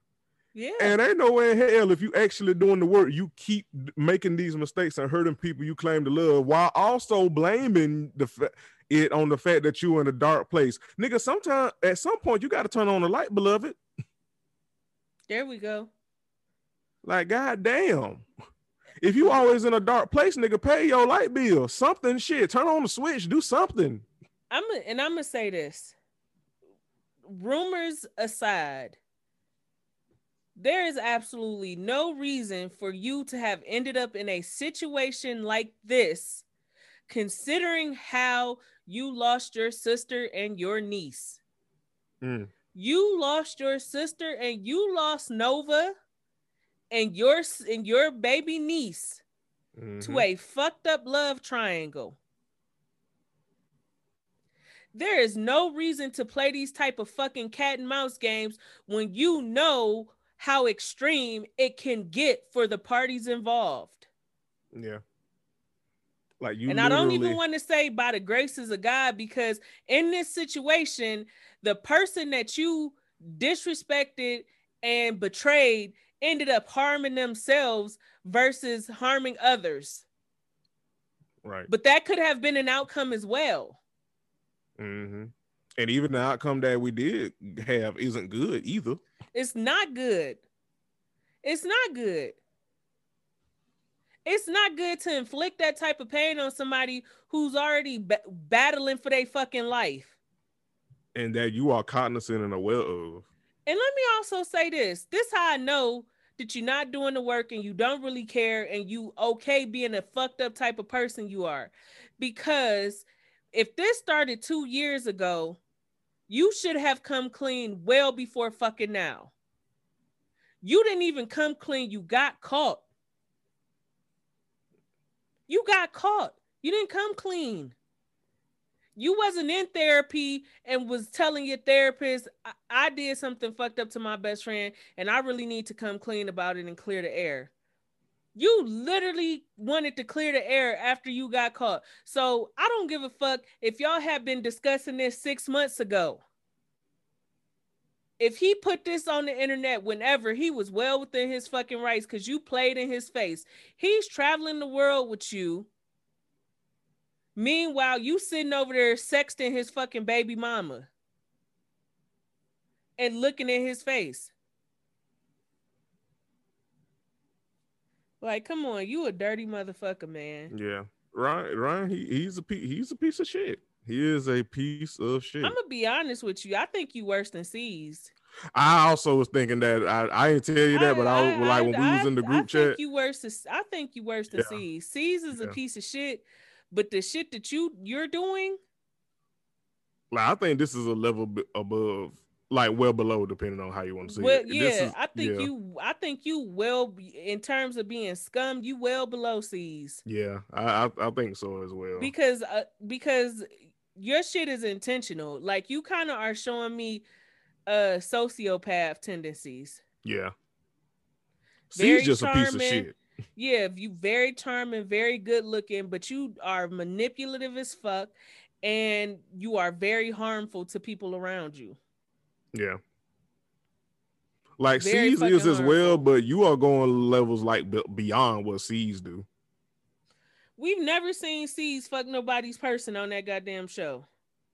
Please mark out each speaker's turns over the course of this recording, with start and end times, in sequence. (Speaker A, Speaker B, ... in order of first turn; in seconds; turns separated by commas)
Speaker A: 0.6-1.0, Speaker B: 0.8-13.8, Speaker A: 15.3-15.9, Speaker B: 17.0-18.2, Speaker B: 19.0-24.1, Speaker A: 24.5-25.9, Speaker A: 27.3-29.0, Speaker A: 30.6-36.5, Speaker A: 37.1-41.4, Speaker B: 42.2-42.5, Speaker A: 42.7-46.0, Speaker A: 46.9-49.2, Speaker B: 49.8-50.3, Speaker A: 50.0-52.2, Speaker A: 54.9-64.1, Speaker B: 64.7-65.0, Speaker B: 66.4-67.4, Speaker A: 66.7-80.0, Speaker B: 81.4-81.7, Speaker A: 81.7-83.8, Speaker B: 84.8-89.0, Speaker A: 89.3-90.4, Speaker A: 91.4-92.4, Speaker A: 94.3-100.2, Speaker B: 101.2-103.3, Speaker A: 103.7-115.6, Speaker A: 116.3-119.3, Speaker A: 120.6-122.8, Speaker A: 125.5-127.8, Speaker A: 129.0-137.5, Speaker A: 138.3-146.2, Speaker A: 148.2-155.7, Speaker A: 157.4-160.9, Speaker A: 163.0-164.3, Speaker A: 168.2-170.5, Speaker B: 170.5-175.6, Speaker A: 175.4-178.1, Speaker B: 178.5-182.8, Speaker A: 180.7-188.6, Speaker B: 184.3-184.6, Speaker B: 190.1-195.5, Speaker A: 194.1-200.0, Speaker B: 200.1-202.1, Speaker A: 202.0-207.1, Speaker A: 207.7-209.8, Speaker B: 210.0-210.3, Speaker B: 211.7-213.0, Speaker A: 211.8-221.8, Speaker B: 222.5-222.8, Speaker B: 224.6-229.3, Speaker A: 224.8-226.1, Speaker A: 230.6-234.1